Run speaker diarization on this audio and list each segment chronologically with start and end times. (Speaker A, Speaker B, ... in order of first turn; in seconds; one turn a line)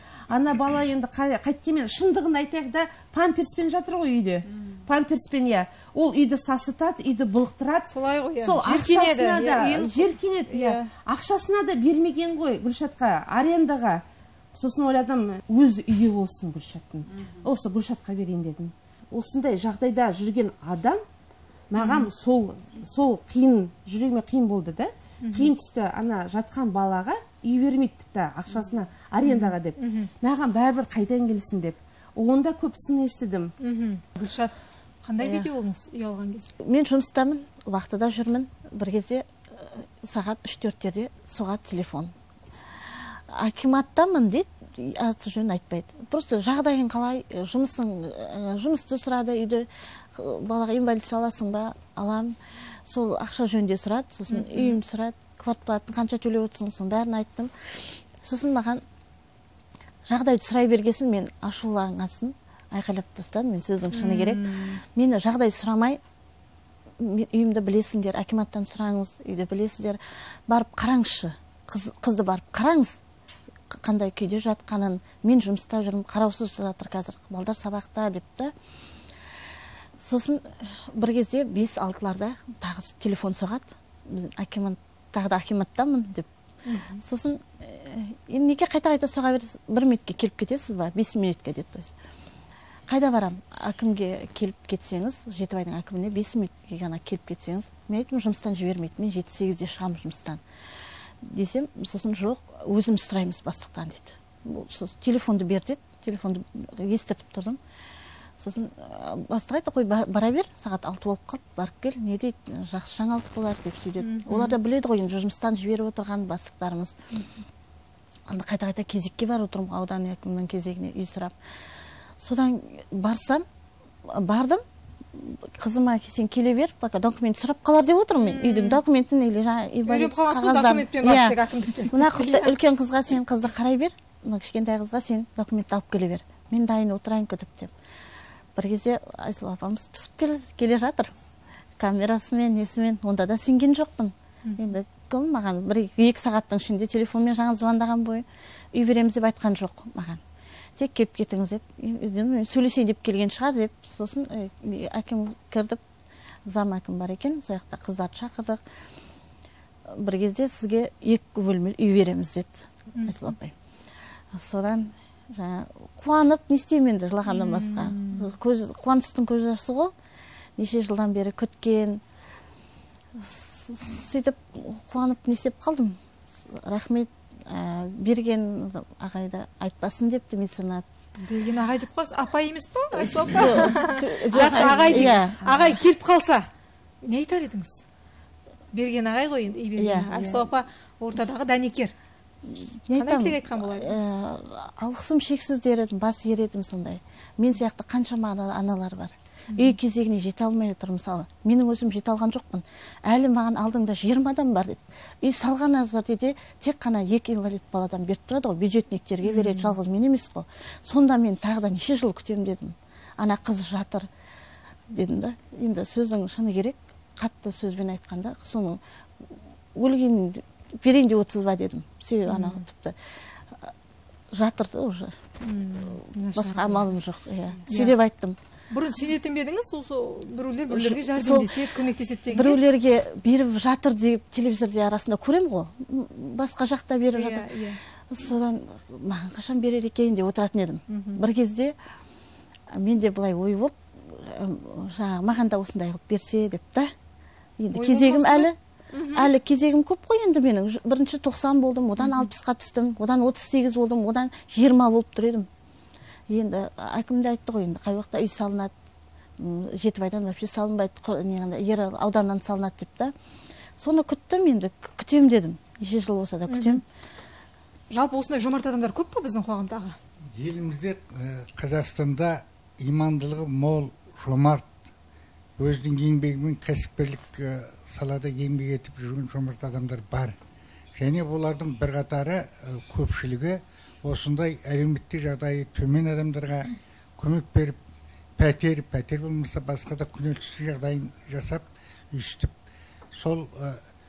Speaker A: 0.3-14.0
Speaker B: 7.9-10.9
Speaker A: 14.5-21.0
Speaker A: 21.7-33.5
Speaker B: 21.8-22.1
Speaker B: 25.2-25.5
Speaker B: 29.2-30.1
Speaker B: 33.6-36.5
Speaker C: 35.2-35.5
Speaker C: 36.6-42.1
Speaker C: 43.3-52.4
Speaker C: 52.9-58.8
Speaker B: 54.3-54.8
Speaker C: 60.1-66.0
Speaker B: 63.9-64.8
Speaker C: 67.0-73.0
Speaker C: 73.7-78.5
Speaker C: 80.0-86.3
Speaker B: 86.7-87.0
Speaker C: 86.9-91.9
Speaker C: 92.9-100.4
Speaker C: 101.2-107.6
Speaker C: 108.4-116.9
Speaker B: 114.0-114.5
Speaker C: 118.3-121.3
Speaker C: 122.2-123.4
Speaker C: 124.0-137.7
Speaker B: 128.2-128.8
Speaker B: 129.8-132.5
Speaker C: 138.5-141.1
Speaker C: 141.8-150.2
Speaker C: 150.8-155.8
Speaker C: 156.5-158.6
Speaker C: 159.9-163.5
Speaker B: 162.9-163.3
Speaker C: 164.3-169.9
Speaker B: 167.3-168.3
Speaker C: 170.6-172.0
Speaker C: 173.2-180.8
Speaker B: 181.2-186.5
Speaker C: 183.0-185.8
Speaker A: 184.6-185.1
Speaker B: 187.0-187.8
Speaker B: 188.7-191.9
Speaker C: 189.8-190.4
Speaker C: 192.4-214.1
Speaker B: 192.9-193.9
Speaker B: 209.2-209.8
Speaker C: 214.9-223.7
Speaker B: 222.3-222.6
Speaker C: 224.3-225.1
Speaker B: 225.4-226.9
Speaker C: 226.2-228.4
Speaker B: 227.7-227.9
Speaker B: 228.7-232.6
Speaker C: 230.7-231.6
Speaker C: 232.3-237.5
Speaker B: 237.1-237.8
Speaker C: 238.1-241.7
Speaker B: 240.9-241.2
Speaker C: 242.7-246.9
Speaker C: 247.6-248.6
Speaker B: 247.7-249.3
Speaker C: 249.1-255.5
Speaker B: 252.0-252.3
Speaker C: 256.3-258.7
Speaker C: 259.4-263.1
Speaker C: 263.8-266.8
Speaker B: 266.5-266.8
Speaker B: 267.9-270.0
Speaker D: 270.3-274.7
Speaker D: 275.6-280.3
Speaker D: 280.9-287.8
Speaker D: 288.4-292.5
Speaker D: 293.1-293.8